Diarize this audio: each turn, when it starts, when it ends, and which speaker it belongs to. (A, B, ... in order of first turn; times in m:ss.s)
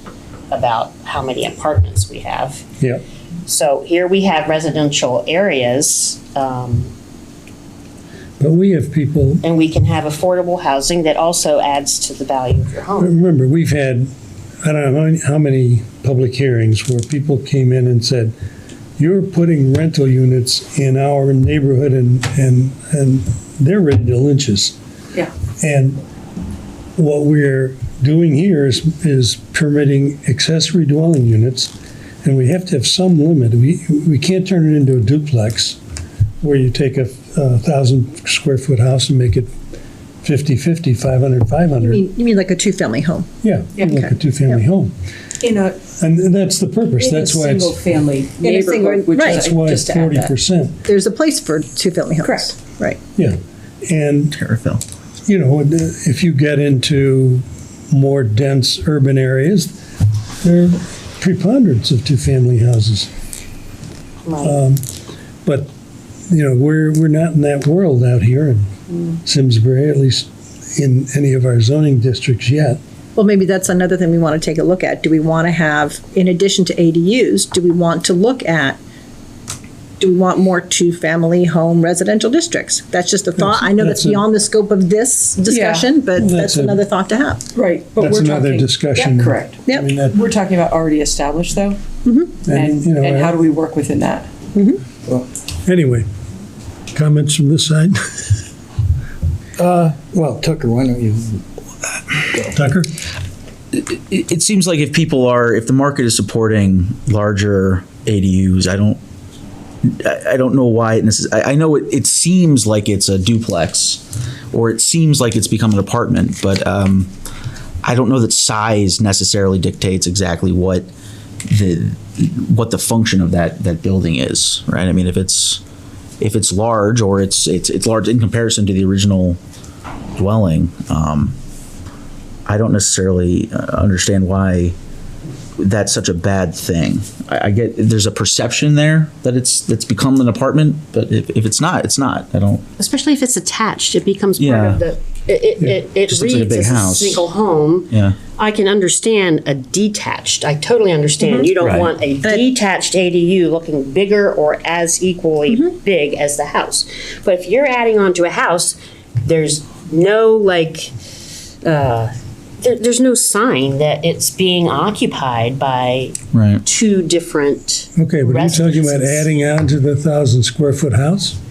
0:00.5-0:02.6 A
0:03.5-0:06.9 A
0:08.4-0:09.4 B
0:09.4-0:13.1 A
0:13.0-0:18.3 B
0:19.0-0:24.8 B
0:25.6-0:26.0 B
0:27.0-0:35.8 B
0:36.4-0:39.5 B
0:40.2-0:42.0 B
0:41.8-0:43.3 C
0:43.4-0:44.9 B
0:43.8-0:44.6 C
0:45.4-0:45.8 D
0:46.0-0:47.8 B
0:47.0-0:50.3 D
0:48.4-0:49.5 C
0:49.3-0:50.8 B
0:50.9-0:53.0 C
0:52.2-0:52.6 D
0:53.2-0:54.4 B
0:54.4-0:54.8 E
0:55.3-0:59.8 B
1:00.4-1:03.1 B
1:04.2-1:04.6 A
1:04.4-1:04.8 B
1:05.4-1:05.7 B
1:06.3-1:12.8 B
1:13.2-1:18.8 C
1:20.0-1:27.4 C
1:23.4-1:24.3 B
1:25.5-1:25.9 D
1:26.1-1:26.9 B
1:27.5-1:31.8 D
1:28.0-1:30.2 B
1:32.0-1:32.4 C
1:32.4-1:33.4 B
1:32.5-1:34.3 D
1:34.6-1:34.8 C
1:35.6-1:36.1 B
1:36.9-1:38.4 B
1:39.6-1:41.4 F
1:42.1-1:42.6 F
1:42.5-1:42.9 B
1:43.7-1:49.0 E
1:49.8-1:57.1 E
1:57.8-2:00.9 E
2:01.5-2:05.6 E
2:06.2-2:09.4 E
2:10.2-2:11.4 E
2:12.5-2:14.8 E
2:15.6-2:22.6 E
2:22.8-2:40.9 A
2:24.4-2:24.8 E
2:25.6-2:27.2 E
2:27.9-2:28.2 E
2:31.2-2:31.5 C
2:31.6-2:31.9 E
2:41.6-2:49.3 A
2:46.3-2:46.6 E
2:48.0-2:51.4 B